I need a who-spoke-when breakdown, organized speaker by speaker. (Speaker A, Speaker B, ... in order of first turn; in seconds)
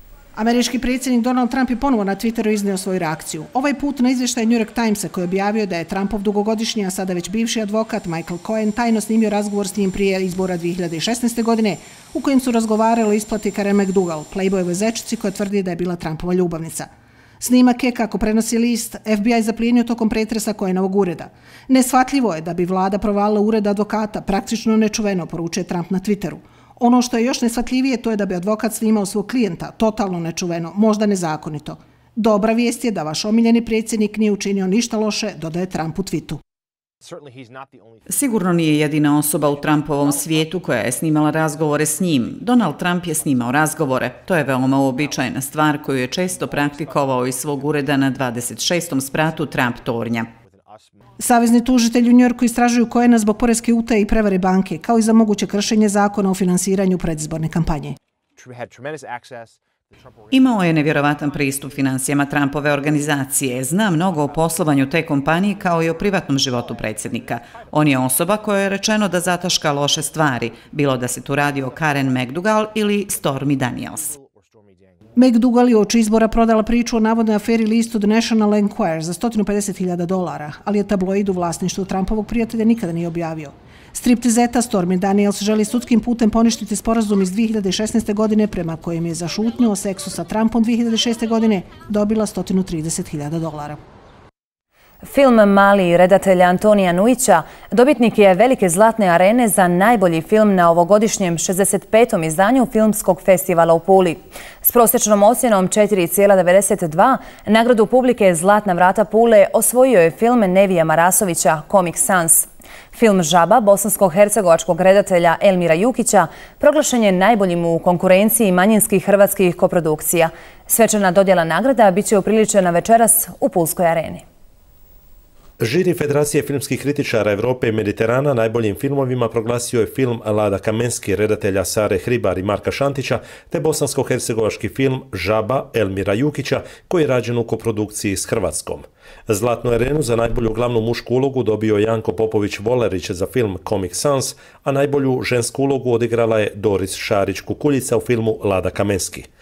Speaker A: 0.3-16.9, 17.4-36.4, 51.2-58.0, 75.2-93.8
Speaker B: 38.0-50.3, 60.3-74.2
Speaker C: 95.0-124.2
Speaker D: 125.6-149.3